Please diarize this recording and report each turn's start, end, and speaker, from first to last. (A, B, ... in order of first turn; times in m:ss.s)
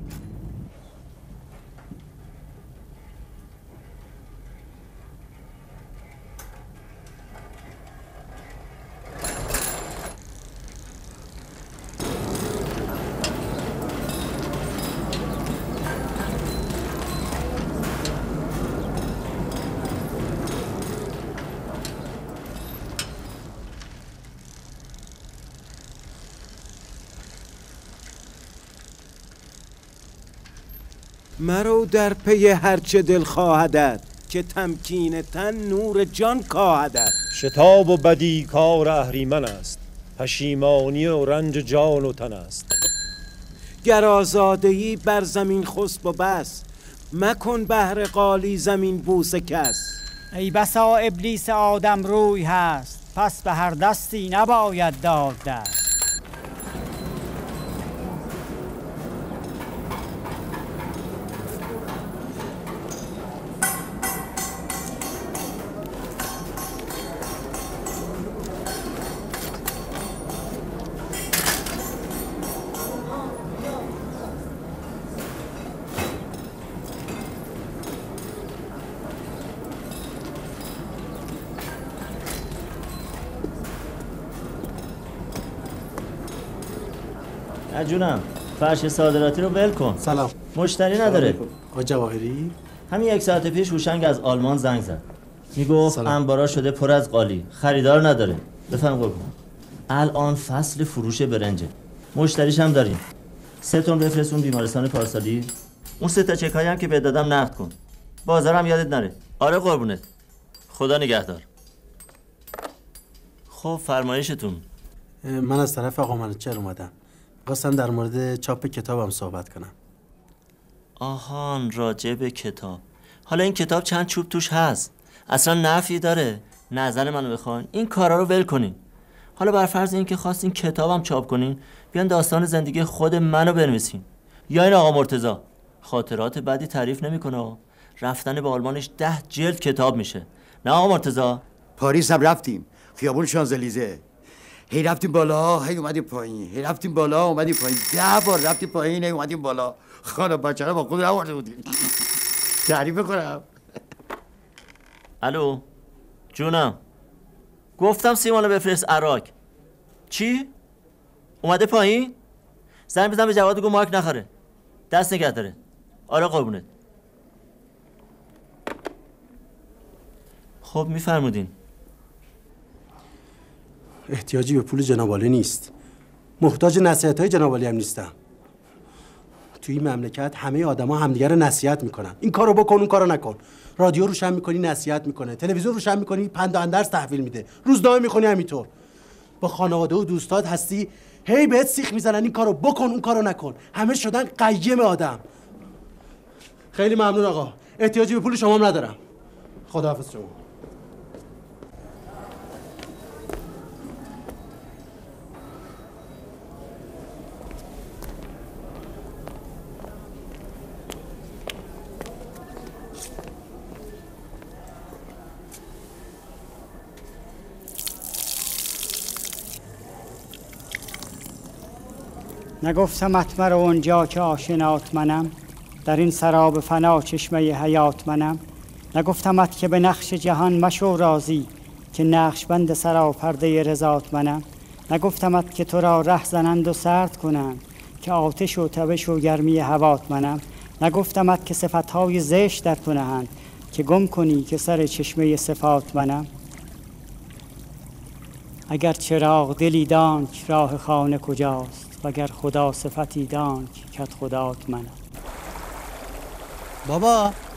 0:31.4-0:37.2 A
0:37.3-0:42.7 B
0:43.8-0:50.0 A
0:50.3-0:55.9 C
1:27.7-1:30.0 D
1:30.0-1:30.3 E
1:30.5-1:31.4 D
1:31.0-1:32.6 E
1:32.9-1:35.0 D
1:35.6-1:39.3 D
1:35.9-1:36.2 E
1:39.9-1:43.0 D
1:43.6-1:50.0 D
1:50.7-1:51.4 D
1:53.5-1:54.6 D
1:55.2-1:56.9 E
1:57.4-1:59.7 E
2:01.0-2:08.8 D
2:09.4-2:21.4 D
2:21.8-2:24.0 F
2:24.7-2:31.9 F
2:32.6-2:33.4 F
2:35.2-2:35.6 D
2:36.3-2:36.8 D
2:37.8-2:39.3 D
2:40.1-2:40.5 D
2:41.4-2:42.2 D
2:42.9-2:44.3 D
2:44.9-2:45.6 D
2:46.1-2:46.7 D
2:50.6-2:51.5 D
2:54.1-2:55.7 E
2:56.4-2:58.1 E
2:59.6-3:08.7 E
3:09.4-3:15.2 E
3:16.7-3:19.0 E
3:19.7-3:20.4 E
3:42.6-3:48.4 C
3:48.9-4:06.3 C
4:08.7-4:15.0 C
4:16.8-4:17.4 E